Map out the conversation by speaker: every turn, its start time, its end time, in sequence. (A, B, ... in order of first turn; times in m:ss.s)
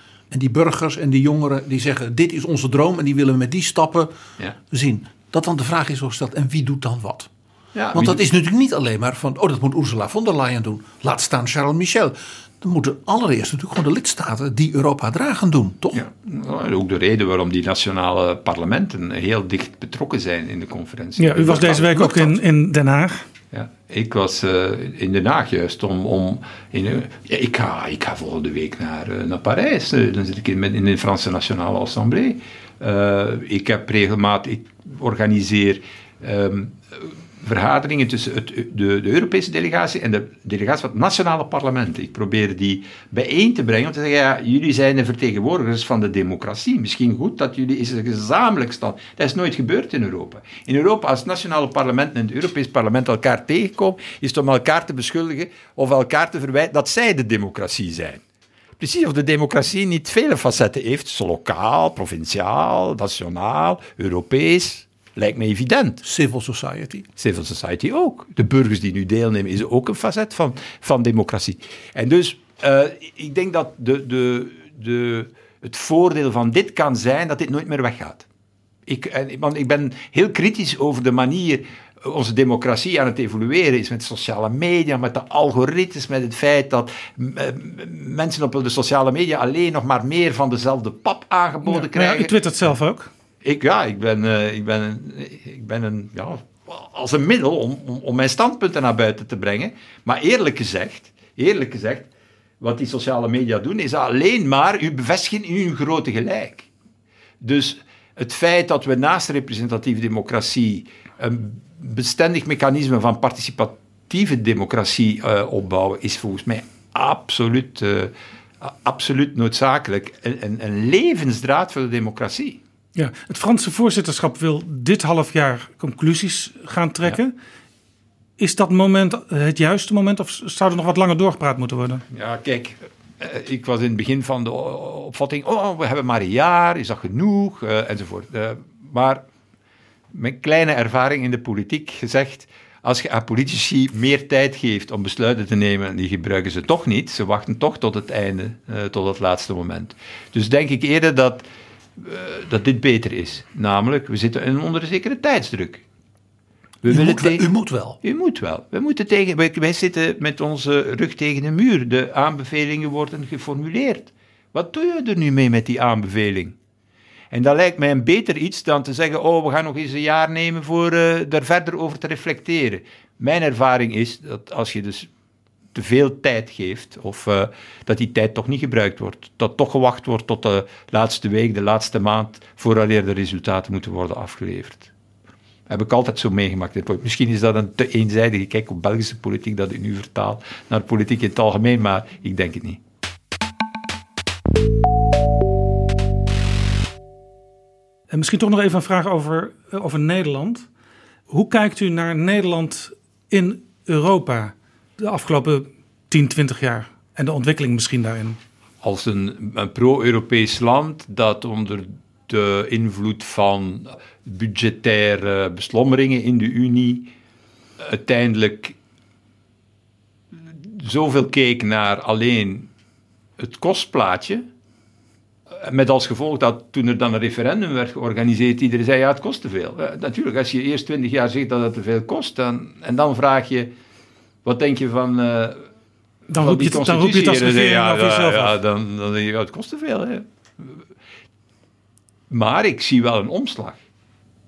0:00.3-0:04.1 A
0:04.7-0:07.3 A
0:07.7-0:08.2 B
0:07.9-0:16.0 A
0:15.9-0:22.4 B
0:21.2-0:23.2 C
0:23.5-0:58.2 B
0:58.8-1:06.0 B
1:06.0-1:07.1 A
1:07.2-1:18.2 B
1:18.9-1:32.4 B
1:31.6-1:33.1 C
1:33.4-1:42.1 B
1:42.6-1:46.7 B
1:47.4-2:02.6 B
2:02.9-2:07.3 C
2:08.4-2:12.0 C
2:12.1-2:19.2 B
2:20.1-2:31.4 B
2:32.0-2:35.8 B
2:36.8-2:37.5 B
2:36.9-2:38.0 A
2:38.0-2:46.6 B
2:47.3-2:55.1 B
2:55.7-3:04.9 B
3:05.7-3:12.8 B
3:18.1-3:20.6 C
3:21.3-3:28.4 C
3:28.8-3:37.1 B
3:37.8-3:38.7 B
3:40.3-3:42.7 B
3:43.4-3:44.4 B
3:45.5-3:53.7 B
3:54.4-3:55.6 B
3:56.3-3:58.6 C
3:56.3-4:00.8 B
4:02.3-4:03.8 B